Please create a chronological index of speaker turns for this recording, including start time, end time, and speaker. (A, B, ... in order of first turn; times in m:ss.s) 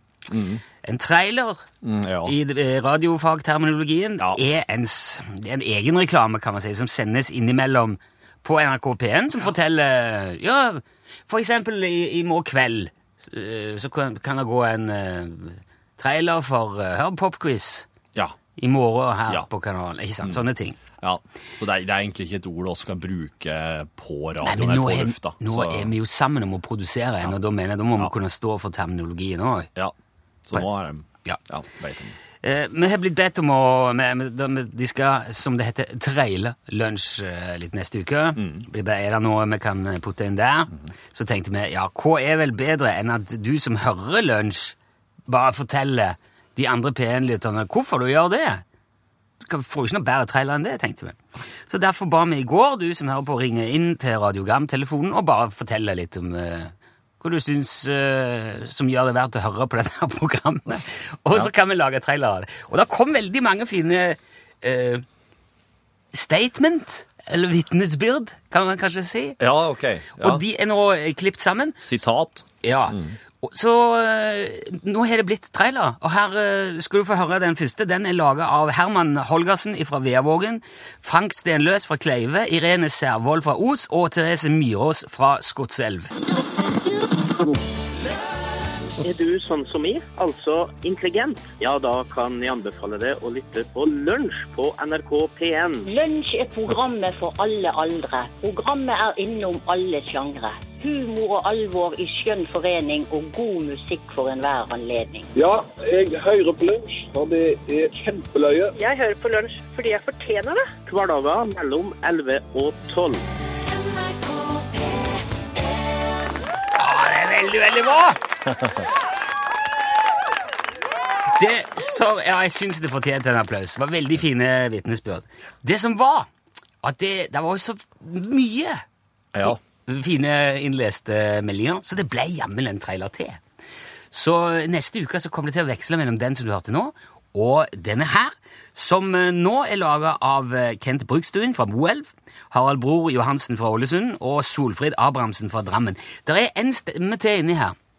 0:00.3-0:00.6 A
0:00.8-0:01.6 B
0:01.8-0:02.3 A
0:02.2-0:17.9 B
0:18.6-0:20.8 B
0:20.2-0:20.4 A
0:21.0-0:25.9 A
0:24.4-0:29.7 B
0:30.4-0:32.2 A
0:32.4-0:44.8 B
0:38.4-0:38.6 A
0:45.3-0:48.6 B
0:49.4-1:05.0 B
1:06.1-1:09.4 B
1:09.4-1:10.4 A
1:10.2-1:11.8 B
1:11.8-1:13.2 A
1:12.6-1:26.1 B
1:29.0-1:35.9 C
1:35.9-1:45.3 D
1:45.4-1:48.7 E
1:48.8-1:50.7 F
1:50.8-1:53.2 C
1:56.8-1:58.2 B
2:01.3-2:06.3 B
2:06.8-2:08.8 B
2:09.3-2:09.6 A
2:09.4-2:13.4 B
2:14.1-2:27.7 B